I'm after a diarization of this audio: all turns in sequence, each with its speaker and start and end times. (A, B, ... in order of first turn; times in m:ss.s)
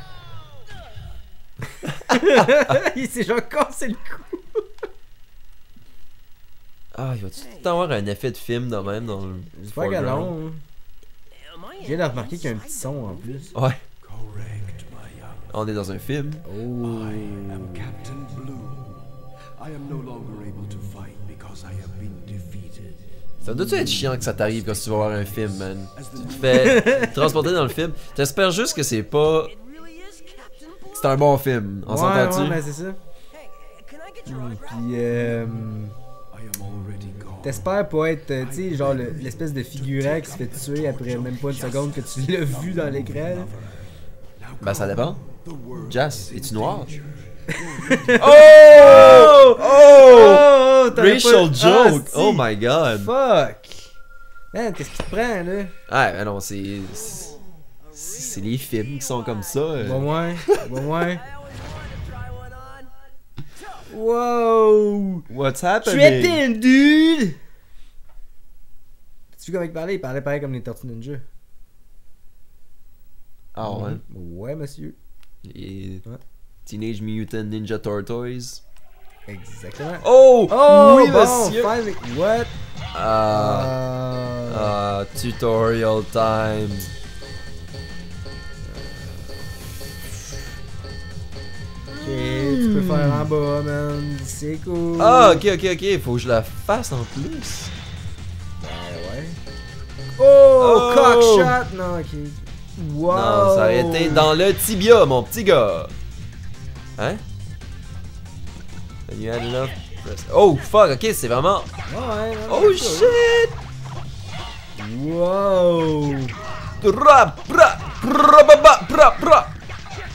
0:02.1-0:04.6 A
0:07.0-0:10.3 B
0:09.6-0:10.6 A
0:11.4-0:11.8 C
0:11.8-0:13.5 A
0:13.5-0:13.8 B
0:14.1-0:15.4 D
0:15.5-0:16.5 B
0:16.4-0:18.0 A
0:16.9-0:19.0 D
0:19.6-0:23.0 D
0:23.4-0:29.5 B
0:26.4-0:27.2 A
0:29.5-0:30.9 C
0:31.0-0:32.6 B
0:31.9-0:33.0 A
0:33.5-0:34.7 C
0:34.2-0:36.0 A
0:36.4-0:37.5 D
0:37.4-0:43.5 A
0:38.6-0:39.1 D
0:39.9-0:43.5 D
0:44.4-0:48.2 D
0:44.6-0:45.2 B
0:45.8-0:47.0 B
0:47.5-0:52.5 A
0:48.2-0:53.1 B
0:53.0-0:53.9 A
0:54.5-0:55.7 A
0:55.9-0:57.4 B
0:57.9-1:00.1 B
0:59.8-1:01.2 A
1:01.5-1:02.9 C
1:03.9-1:05.3 A
1:05.3-1:06.4 B
1:05.8-1:07.4 A
1:09.4-1:11.2 A
1:13.6-1:14.0 B
1:13.6-1:15.0 A
1:15.4-1:16.0 B
1:16.7-1:18.6 B
1:19.3-1:22.5 A
1:20.0-1:21.7 B
1:22.9-1:23.7 B
1:23.3-1:24.7 A
1:24.5-1:26.9 B
1:28.7-1:29.4 A
1:32.0-1:35.4 A
1:32.0-1:33.3 B
1:35.0-1:37.7 B
1:38.6-1:39.4 A
1:40.2-1:44.3 A
1:40.6-1:41.6 B
1:43.1-1:45.9 B
1:47.0-1:47.2 B
1:49.1-1:51.7 B
1:51.9-1:53.2 A
1:52.5-1:53.6 B
1:54.8-1:56.3 A
1:56.8-1:59.5 B